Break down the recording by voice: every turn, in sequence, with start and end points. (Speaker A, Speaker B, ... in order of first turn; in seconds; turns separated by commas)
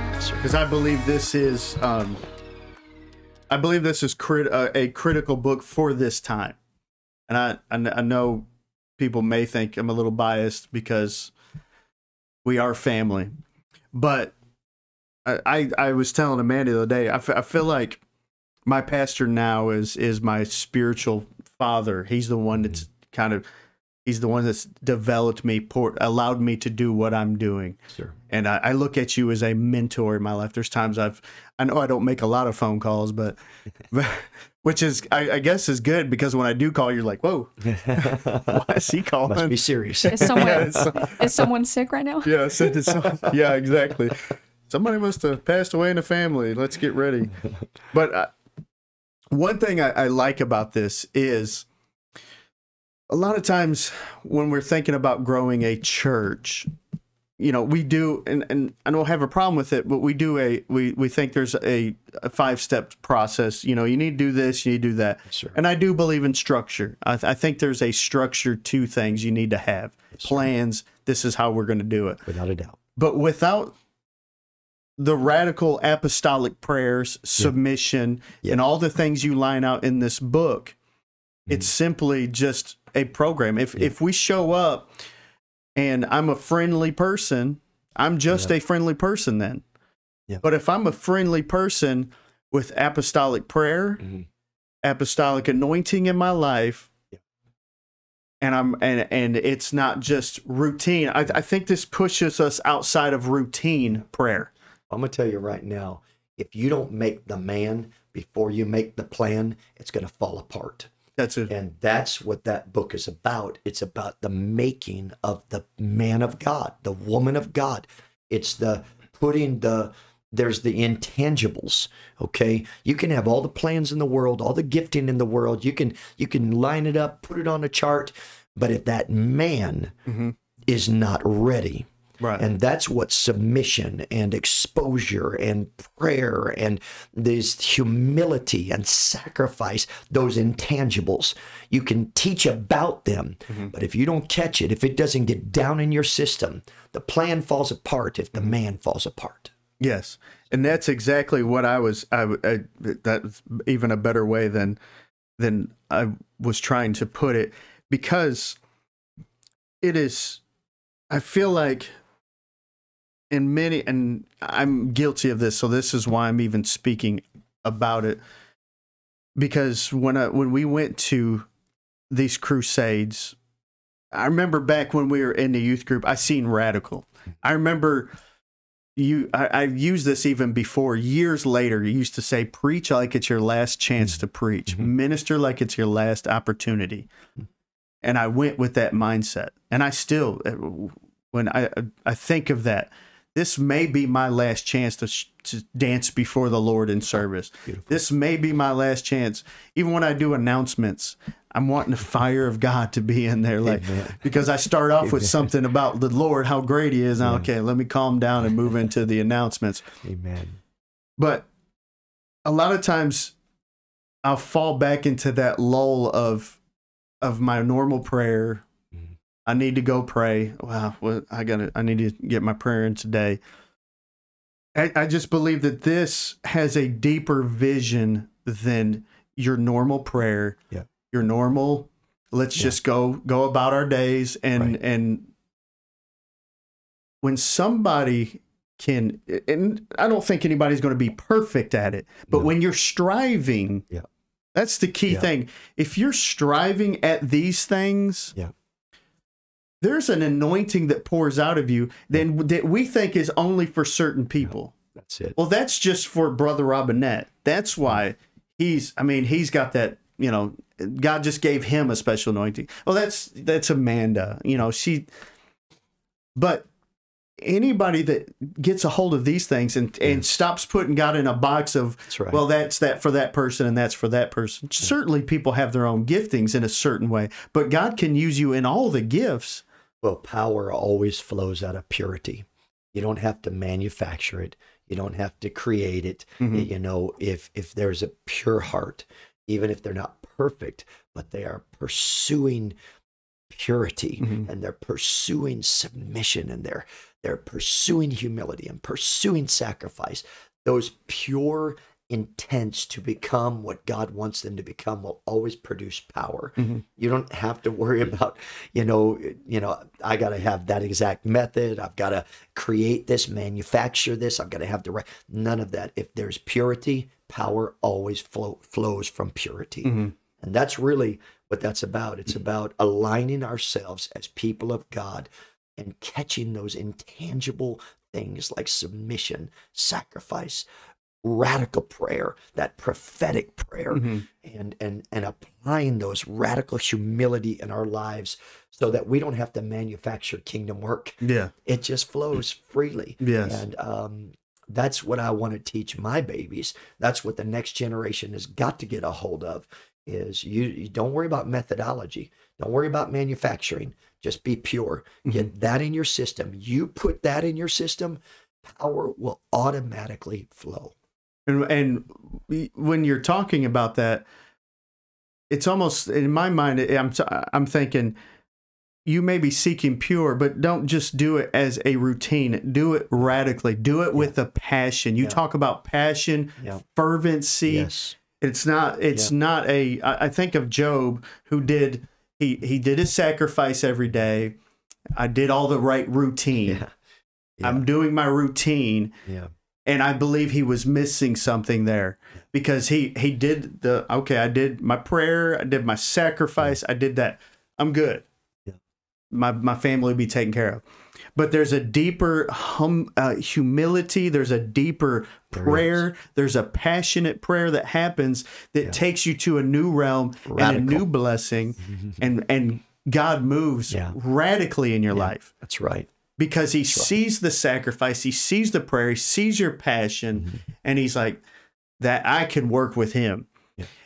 Speaker A: 0.3-2.2, Speaker A: 3.5-6.6, Speaker A: 7.3-8.5, Speaker A: 9.0-11.3, Speaker A: 12.4-13.3, Speaker A: 13.9-14.3, Speaker A: 15.2-18.0, Speaker A: 18.6-23.4, Speaker A: 24.0-33.4, Speaker A: 33.9-41.5, Speaker B: 37.6-38.8, Speaker B: 39.3-41.1, Speaker C: 40.1-42.7, Speaker A: 42.2-47.4, Speaker B: 43.0-43.3, Speaker A: 47.9-48.3, Speaker A: 49.3-51.6, Speaker A: 53.1-56.7, Speaker A: 57.4-72.2, Speaker B: 65.3-65.5, Speaker B: 70.2-70.4, Speaker B: 72.2-72.8, Speaker A: 73.0-73.7, Speaker A: 75.0-80.8, Speaker A: 81.5-84.9, Speaker A: 85.8-89.6, Speaker A: 90.4-94.0, Speaker A: 94.8-96.9, Speaker A: 98.4-104.5, Speaker B: 104.9-110.9, Speaker A: 111.2-111.5, Speaker B: 111.5-129.9, Speaker A: 130.1-130.3, Speaker B: 130.7-149.5, Speaker A: 132.2-132.4, Speaker A: 149.8-154.8, Speaker A: 155.4-158.6, Speaker A: 159.8-160.4, Speaker A: 161.1-161.9, Speaker A: 163.3-168.2, Speaker A: 169.3-171.5, Speaker A: 172.1-173.3, Speaker A: 174.1-178.1, Speaker A: 178.9-187.1, Speaker A: 188.0-209.8, Speaker B: 197.7-198.0, Speaker B: 203.6-204.2, Speaker B: 205.0-205.4, Speaker B: 207.2-207.5, Speaker B: 210.0-210.6, Speaker A: 211.2-211.5, Speaker A: 212.4-213.3, Speaker A: 214.2-216.6, Speaker A: 217.2-218.7, Speaker A: 219.4-223.4, Speaker A: 224.7-235.3, Speaker A: 237.2-243.8, Speaker A: 244.5-248.3, Speaker A: 249.8-254.8, Speaker B: 254.4-255.3, Speaker A: 255.3-265.1, Speaker A: 266.3-266.7, Speaker A: 267.4-279.6, Speaker B: 272.1-272.4, Speaker B: 280.0-292.8, Speaker A: 286.4-286.7, Speaker B: 293.5-330.6, Speaker A: 294.2-294.5, Speaker A: 306.6-306.8, Speaker A: 319.8-320.1, Speaker B: 331.2-360.9, Speaker A: 333.9-334.2, Speaker A: 341.2-341.5, Speaker A: 343.2-343.6, Speaker A: 361.5-364.3, Speaker A: 365.5-368.1, Speaker A: 369.1-377.9, Speaker B: 377.6-378.1, Speaker A: 378.4-384.5, Speaker A: 385.1-386.8, Speaker B: 387.6-387.8, Speaker A: 387.6-389.1, Speaker B: 389.2-389.5, Speaker A: 389.9-398.2, Speaker A: 399.3-400.8, Speaker A: 401.4-415.5, Speaker B: 405.5-406.0, Speaker B: 410.5-411.0, Speaker B: 411.8-412.2, Speaker B: 413.9-414.1, Speaker B: 415.1-416.1, Speaker A: 416.4-421.4, Speaker A: 422.0-423.5